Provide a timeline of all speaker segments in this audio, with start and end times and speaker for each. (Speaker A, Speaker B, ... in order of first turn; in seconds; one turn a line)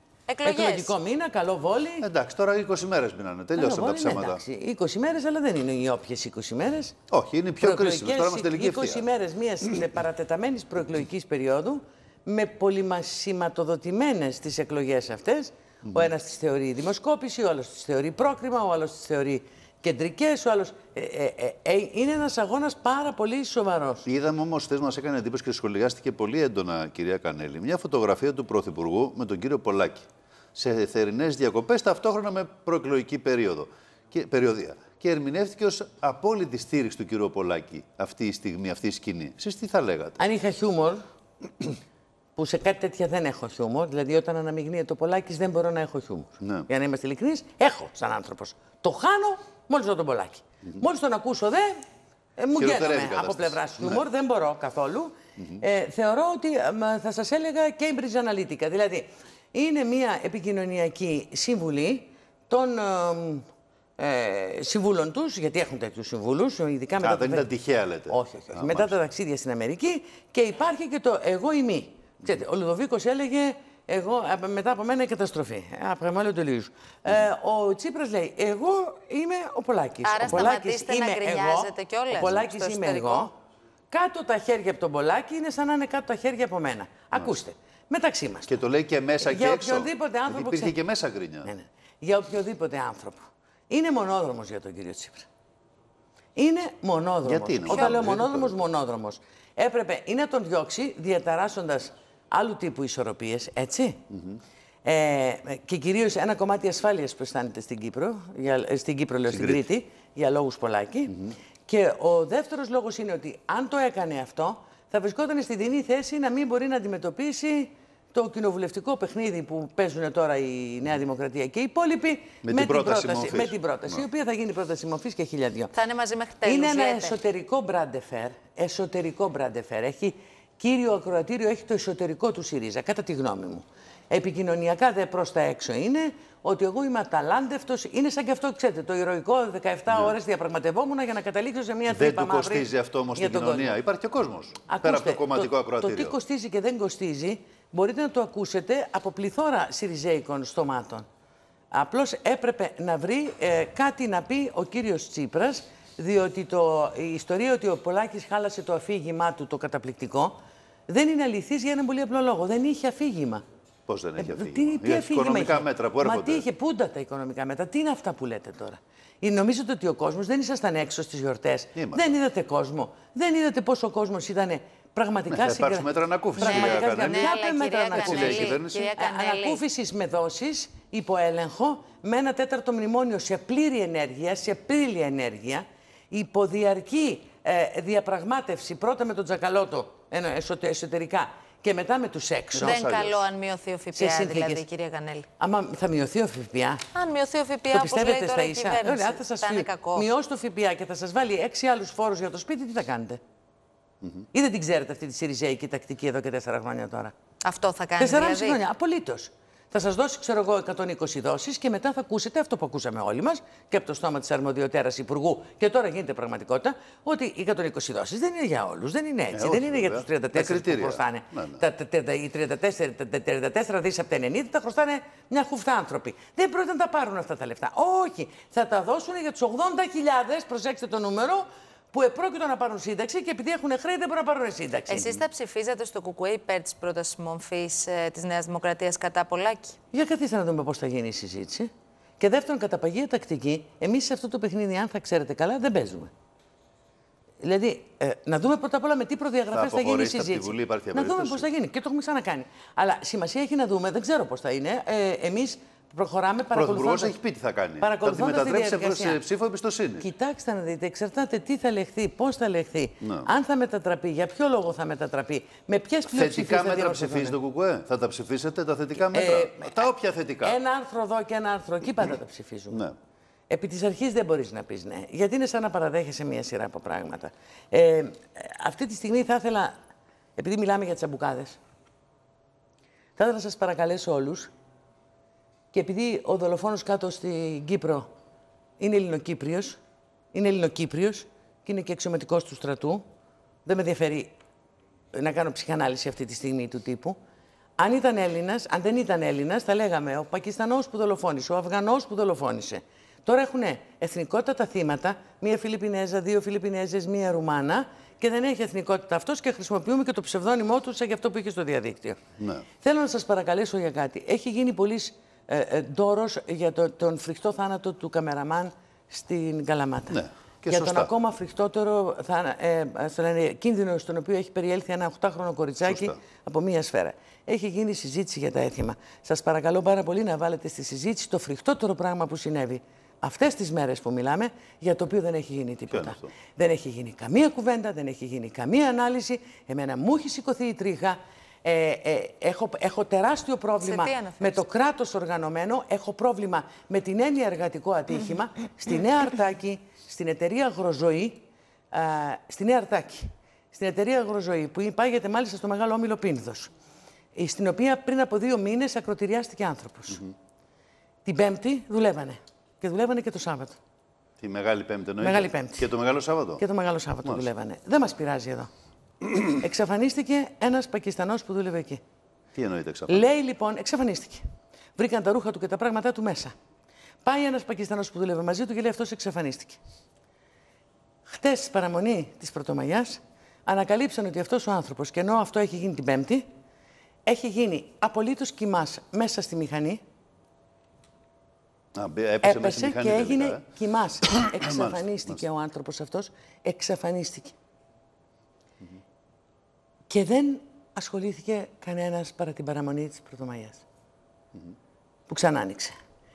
Speaker A: 0.3-0.9
Speaker B: 0.4-2.1
Speaker C: 2.0-4.4
Speaker B: 3.6-7.0
Speaker C: 7.1-9.0
Speaker B: 7.6-24.1
Speaker C: 24.1-40.2
Speaker B: 40.2-41.0
Speaker B: 42.4-51.8
Speaker C: 46.4-46.7
Speaker B: 52.4-63.5
Speaker C: 52.6-54.0
Speaker B: 64.0-67.5
Speaker C: 67.0-69.0
Speaker B: 68.1-83.3
Speaker A: 80.0-83.3
Speaker B: 83.9-88.6
Speaker C: 88.5-91.5
Speaker B: 89.2-90.8
Speaker B: 91.4-95.3
Speaker B: 96.4-104.0
Speaker C: 97.2-98.6
Speaker A: 97.7-98.0
Speaker C: 104.1-104.4
Speaker B: 104.8-125.7
Speaker C: 109.3-109.6
Speaker C: 122.4-124.0
Speaker A: 125.7-127.1
Speaker B: 126.4-143.8
Speaker C: 139.9-140.2
Speaker C: 141.9-146.2
Speaker B: 144.7-151.1
Speaker B: 151.7-160.4
Speaker B: 160.9-163.4
Speaker C: 163.9-166.4
Speaker B: 164.2-192.8
Speaker C: 171.8-172.0
Speaker C: 175.3-177.4
Speaker A: 176.4-179.6
Speaker C: 177.9-178.9
Speaker C: 192.6-193.2
Speaker A: 192.6-195.3
Speaker B: 193.9-194.7
Speaker B: 195.4-196.9
Speaker A: 196.9-200.1
Speaker B: 197.7-203.2
Speaker B: 204.3-207.1
Speaker A: 207.4-208.6
Speaker B: 208.0-235.2
Speaker C: 219.3-221.6
Speaker A: 234.9-239.8
Speaker B: 239.9-241.7
Speaker B: 242.2-246.1
Speaker B: 247.4-257.2
Speaker C: 249.5-251.5
Speaker C: 256.5-260.1
Speaker B: 257.8-259.2
Speaker B: 260.0-267.4
Speaker C: 263.0-263.3
Speaker C: 266.1-270.6
Speaker B: 269.0-269.8
Speaker B: 270.4-272.9
Speaker B: 273.5-279.7
Speaker B: 280.4-281.6
Speaker B: 283.2-284.5
Speaker B: 285.7-288.1
Speaker B: 288.8-289.8
Speaker B: 290.3-293.0
Speaker B: 293.6-294.3
Speaker B: 295.1-297.2
Speaker B: 297.8-312.2
Speaker C: 312.4-312.6
Speaker B: 312.8-351.4
Speaker C: 320.1-321.1
Speaker C: 325.8-326.2
Speaker C: 335.9-336.2
Speaker A: 343.8-344.6
Speaker B: 351.9-356.7
Speaker B: 357.4-360.2
Speaker B: 361.2-363.8
Speaker C: 364.4-366.6
Speaker B: 365.2-365.9
Speaker B: 366.6-368.7
Speaker B: 369.4-372.0
Speaker C: 372.6-373.3
Speaker B: 373.1-374.4
Speaker B: 375.0-376.5
Speaker B: 377.2-379.8
Speaker B: 381.3-386.4
Speaker B: 387.3-390.0
Speaker C: 391.9-393.6
Speaker B: 392.4-397.6
Speaker C: 394.2-395.4
Speaker B: 400.1-403.9
Speaker B: 405.3-405.9